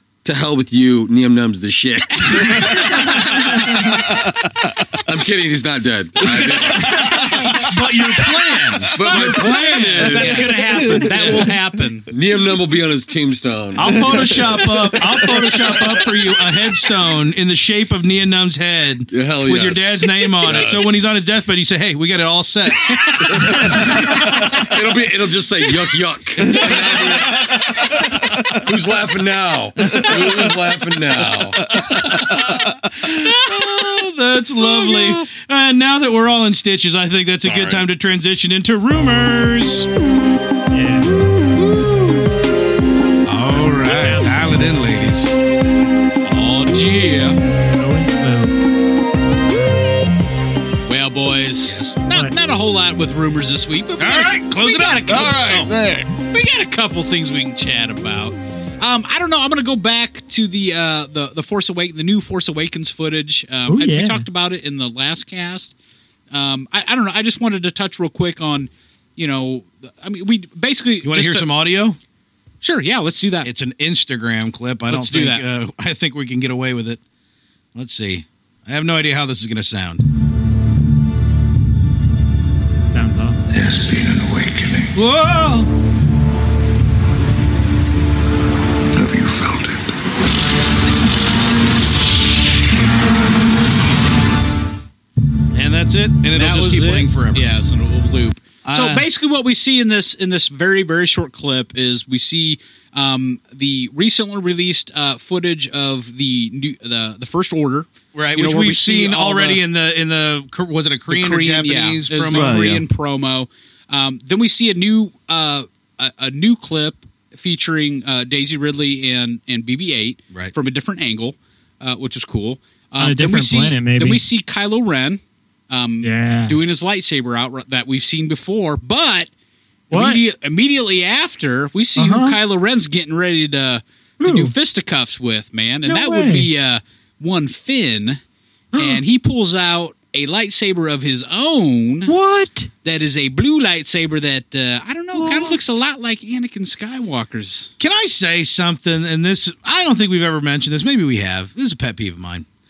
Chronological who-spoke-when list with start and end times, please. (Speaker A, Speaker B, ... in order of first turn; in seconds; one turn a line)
Speaker A: 0.2-4.0
Speaker B: 2.3-3.3
Speaker C: 4.0-4.2
Speaker A: 5.0-7.7
Speaker C: 6.3-7.7
Speaker D: 6.4-6.9
Speaker D: 7.6-10.5
Speaker A: 8.9-11.5
Speaker B: 9.0-12.1
Speaker C: 10.1-11.5
Speaker A: 12.1-14.5
Speaker D: 13.8-23.7
Speaker C: 13.9-15.9
Speaker A: 15.3-15.7
Speaker A: 19.1-21.1
Speaker A: 23.6-32.5
Speaker C: 26.5-28.5
Speaker D: 29.8-30.5
Speaker C: 29.9-30.4
Speaker D: 32.9-39.9
Speaker B: 33.2-33.7
Speaker B: 34.6-35.3
Speaker A: 37.5-37.8
Speaker E: 40.7-41.1
Speaker D: 41.6-42.3
Speaker D: 43.2-45.3
Speaker E: 43.5-44.4
Speaker B: 46.2-47.4
Speaker E: 47.7-48.5
Speaker B: 50.9-55.7
Speaker E: 52.1-52.3
Speaker D: 54.0-55.7
Speaker C: 55.1-56.1
Speaker B: 56.3-65.7
Speaker E: 63.7-64.3
Speaker B: 66.3-71.5
Speaker D: 71.0-72.0
Speaker B: 72.6-73.5
Speaker D: 73.4-77.0
Speaker B: 74.9-75.4
Speaker D: 77.8-80.0
Speaker E: 82.9-83.7
Speaker D: 84.0-85.7
Speaker D: 95.5-97.5
Speaker B: 96.3-109.6
Speaker D: 98.7-99.0
Speaker D: 108.1-112.8
Speaker B: 111.1-129.3
Speaker C: 112.3-112.8
Speaker E: 123.0-124.2
Speaker E: 126.0-126.6
Speaker B: 129.9-138.2
Speaker E: 129.9-130.2
Speaker E: 132.0-132.4
Speaker E: 134.2-134.5
Speaker E: 135.9-136.5
Speaker E: 138.7-139.0
Speaker B: 138.8-142.1
Speaker E: 142.1-142.7
Speaker B: 142.8-147.7
Speaker E: 145.2-145.6
Speaker D: 147.8-152.5